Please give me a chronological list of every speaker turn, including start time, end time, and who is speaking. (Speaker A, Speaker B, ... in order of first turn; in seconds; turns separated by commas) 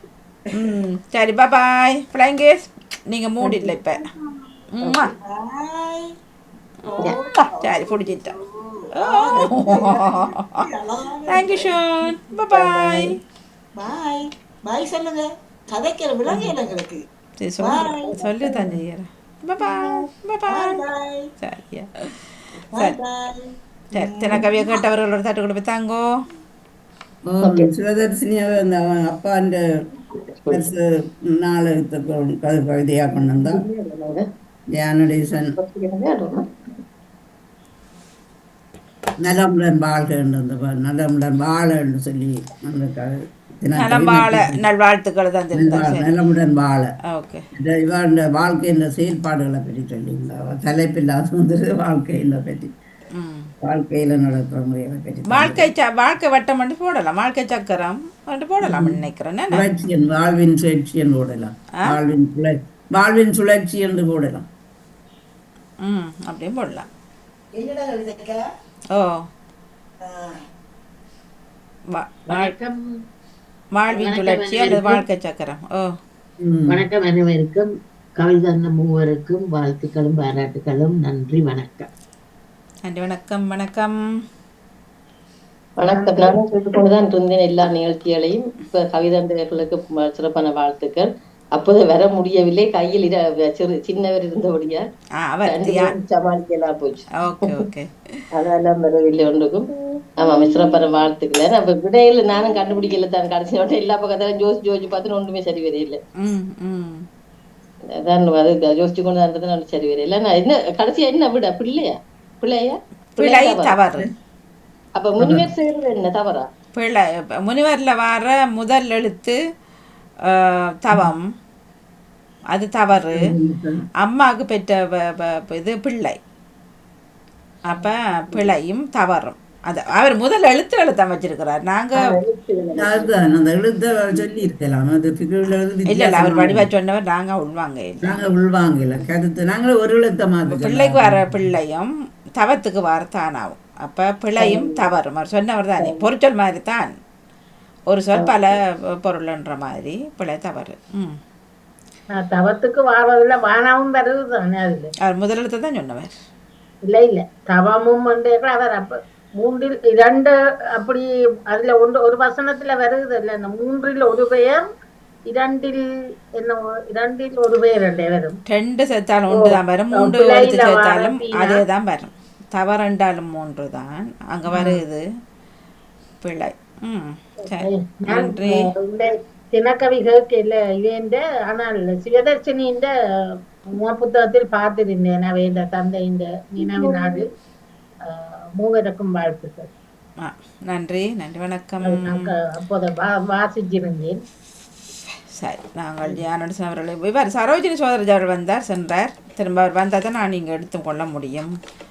Speaker A: 0.6-4.0, Speaker A: 4.7-5.1, Speaker B: 5.2-6.1, Speaker B: 6.8-11.8, Speaker A: 7.6-8.3, Speaker A: 9.0-10.4, Speaker C: 9.4-9.8, Speaker A: 11.3-13.1, Speaker B: 12.4-13.0, Speaker B: 13.7-17.0, Speaker A: 17.4-20.8, Speaker B: 17.6-18.7, Speaker B: 20.5-21.3, Speaker A: 21.4-21.9, Speaker B: 22.7-24.8, Speaker A: 23.9-26.0, Speaker C: 27.3-29.6, Speaker D: 27.4-27.7, Speaker D: 30.1-30.7, Speaker C: 30.5-30.8, Speaker C: 31.4-33.6, Speaker D: 33.2-34.2, Speaker C: 34.8-35.5, Speaker D: 35.6-36.4, Speaker C: 39.2-44.6, Speaker A: 43.8-46.1, Speaker C: 45.5-46.9, Speaker A: 47.1-47.4, Speaker C: 47.6-52.7, Speaker A: 53.1-53.5, Speaker C: 53.6-55.7, Speaker A: 55.3-59.6, Speaker C: 58.6-59.0, Speaker C: 59.5-64.5, Speaker A: 65.8-66.8, Speaker B: 67.6-68.2, Speaker A: 71.9-72.5, Speaker E: 72.3-72.8, Speaker A: 73.7-75.9, Speaker E: 74.0-75.0, Speaker C: 76.4-76.8, Speaker E: 76.7-81.9, Speaker A: 82.8-83.9, Speaker D: 85.8-94.8, Speaker E: 85.9-86.3, Speaker A: 95.2-95.9, Speaker D: 95.5-97.6, Speaker A: 97.2-97.9, Speaker D: 98.3-106.0, Speaker A: 106.2-107.0, Speaker D: 108.0-113.8, Speaker A: 113.2-114.0, Speaker D: 114.9-116.5, Speaker C: 115.2-115.5, Speaker A: 116.8-119.3, Speaker A: 120.3-121.2, Speaker A: 122.5-123.2, Speaker C: 123.1-123.8, Speaker A: 124.0-126.2, Speaker A: 127.7-132.1, Speaker E: 132.1-133.1, Speaker C: 132.7-136.7, Speaker A: 135.9-138.2, Speaker C: 138.0-141.4, Speaker A: 140.5-146.9, Speaker A: 147.9-151.2, Speaker F: 152.1-154.9, Speaker A: 155.0-156.2, Speaker F: 156.8-164.6, Speaker F: 165.3-165.8, Speaker F: 166.4-168.3, Speaker A: 168.5-175.0, Speaker F: 169.3-171.6, Speaker A: 176.2-178.7, Speaker F: 177.5-182.9, Speaker F: 183.8-187.2, Speaker F: 188.1-189.7, Speaker A: 190.2-192.3, Speaker F: 191.8-194.2, Speaker A: 195.4-201.5